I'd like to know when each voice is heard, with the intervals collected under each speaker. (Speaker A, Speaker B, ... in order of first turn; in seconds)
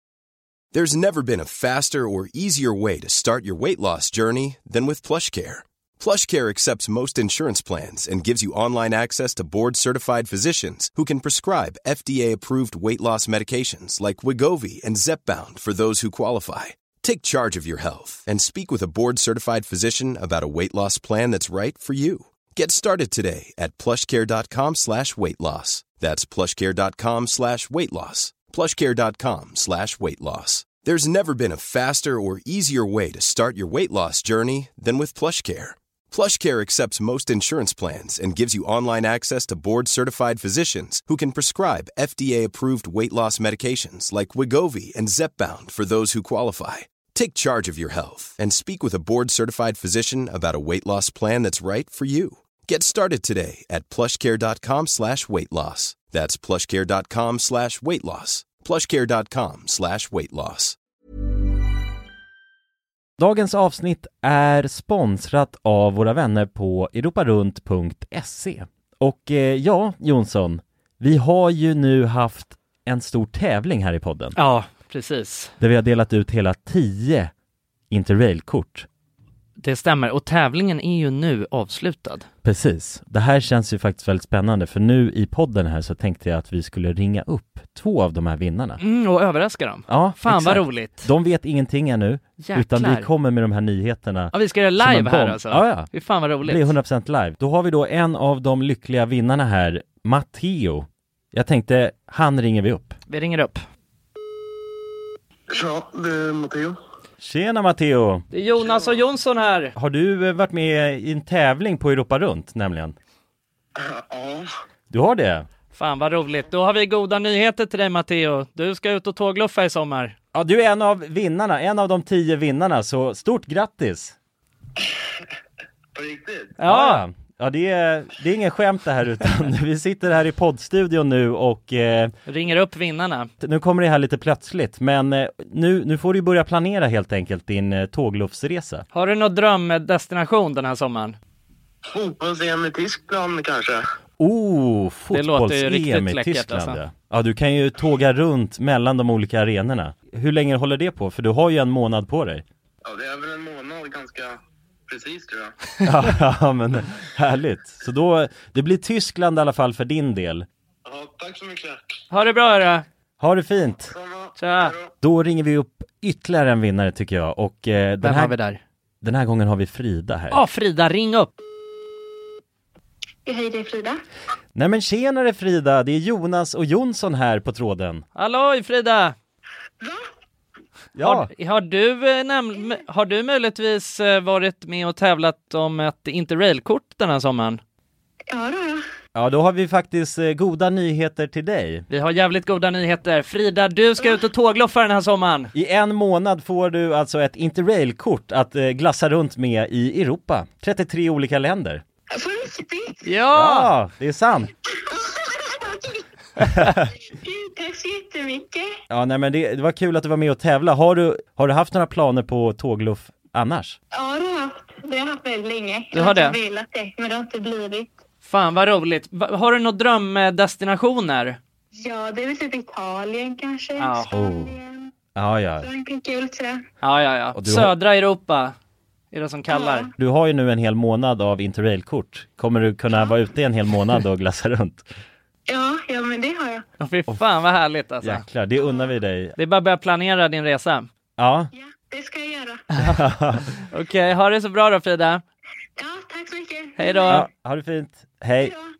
Speaker A: 0.7-60.8
Speaker B: 63.2-74.3, 75.6-77.3, 77.9-78.8, 82.4-88.8, 89.9-95.9, 96.4-100.8, 101.3-102.9, 107.2-108.2, 109.8-112.9, 114.9-115.4, 120.3-124.1, 126.6-132.1, 133.4-138.8, 144.2-152.4, 155.8-160.4, 163.2-163.9, 165.0-168.3, 169.0-170.4, 174.6-178.0, 180.9-181.3, 189.1-191.8, 195.5-201.8, 203.3-204.5, 208.9-213.8, 224.1-224.5, 225.2-225.7, 227.3-227.7, 230.0-234.8, 238.0-239.3, 241.2-241.5, 242.8-243.4, 247.1-248.5
Speaker C: 74.3-75.5, 79.6-82.3, 88.8-91.1, 92.4-93.1, 94.3-96.7, 103.1-103.6, 108.3-109.7, 115.7-120.1, 126.6-127.0, 132.3-133.3, 138.9-141.2, 145.1-146.8, 162.1-162.8, 164.4-164.7, 168.0-168.6, 170.3-171.3, 178.1-179.1, 181.0-187.6, 191.9-195.5, 203.0-203.7, 215.9-216.4, 218.2-221.4, 223.8-224.1, 226.8-228.5, 229.1-229.9, 236.8-238.2, 239.3-240.9, 243.7-245.2, 246.8-247.2
Speaker D: 105.5-106.8, 113.8-114.5, 125.9-126.5, 141.9-143.8, 152.8-154.3, 154.9-155.5, 160.8-161.8, 163.8-164.9
Speaker E: 173.2-174.0, 179.8-180.1, 188.3-188.8, 202.2-203.1, 204.9-206.0, 207.2-208.7, 213.9-218.0, 221.8-224.8, 225.6-226.6, 229.5-229.9, 235.5-236.6, 241.5-242.6, 245.8-247.2, 248.3-248.7